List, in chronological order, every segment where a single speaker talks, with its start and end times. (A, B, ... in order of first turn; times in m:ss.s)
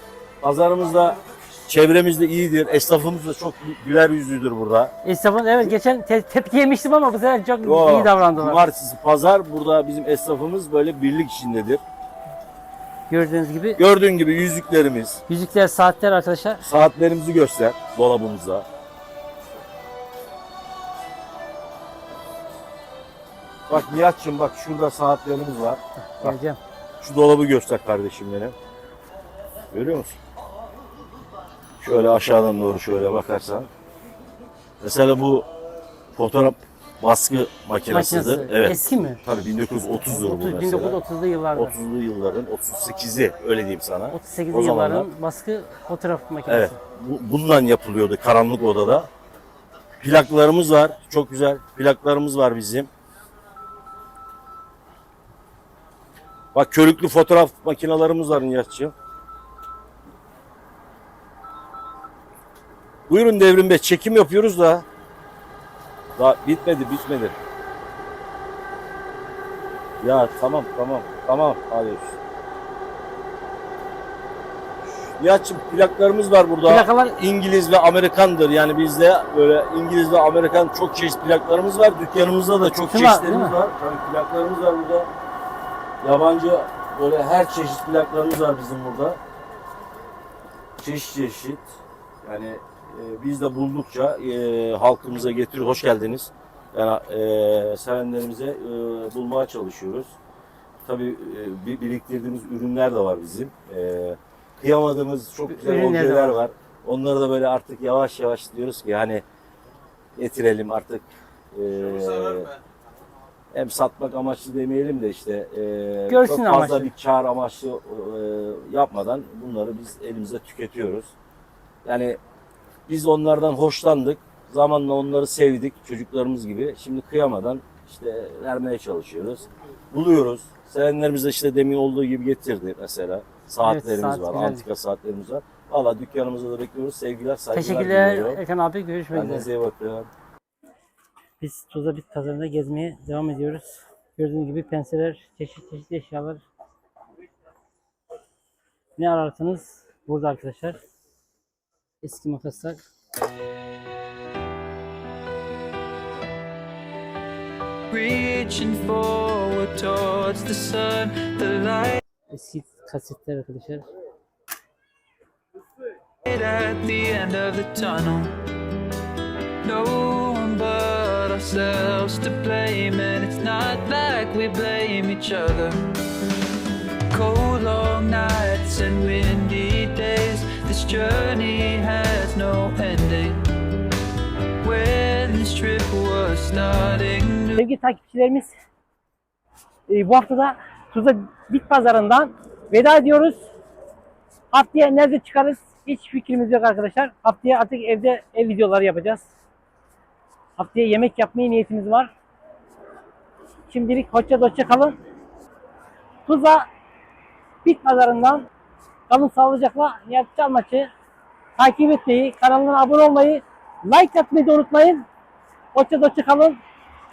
0:00.4-0:04.9 A
0:05.0-0:08.6 B
0:07.6-0:11.8 A
0:13.1-0:13.8 B
0:13.8-0:15.2 A
0:15.3-0:16.6 B
0:16.6-0:18.6 A
0:23.7-0:26.4 A
0:26.0-0:26.6 B
0:27.0-0:28.5 A
0:29.7-0:30.2 A
0:31.8-0:33.7 A
0:34.8-0:35.4 A
0:36.2-0:41.0 A
0:37.9-0:39.2 B
0:40.1-0:41.7 B
0:41.5-0:45.1 A
0:44.1-0:46.8 B
0:46.5-0:49.1 A
0:50.0-0:52.9 A
0:56.5-0:58.9 A
1:03.1-1:04.8 A
1:06.2-1:07.3 A
1:10.0-1:12.2 A
1:15.2-1:25.1 A
1:16.6-1:17.2 B
1:22.8-1:23.6 B
1:26.0-1:29.2 A
1:30.8-1:31.7 A
1:32.2-1:40.1 A
1:40.8-1:49.2 A
1:45.5-1:46.4 B
1:50.2-1:52.5 A
1:53.5-2:01.1 A
1:56.1-1:56.9 B
2:01.8-2:02.2 A
2:02.9-2:18.4 A
2:13.6-2:14.7 B
2:17.5-2:19.5 B
2:19.1-2:20.1 A
2:21.4-2:26.4 B
2:29.0-2:30.8 B
2:32.0-2:32.8 B
2:37.9-2:42.0 C
2:42.3-2:43.9 B
2:46.2-2:48.3 C
2:49.6-2:55.8 C
2:57.1-3:03.4 C
3:04.6-3:07.6 C
3:07.6-3:08.5 B
3:09.9-3:13.4 B
3:14.5-3:19.3 B
3:20.6-3:22.1 B
3:23.7-3:25.0 B
3:26.3-3:26.7 B
3:27.6-3:28.5 B
3:29.1-3:30.9 B
3:31.6-3:35.0 B
3:35.7-3:36.6 B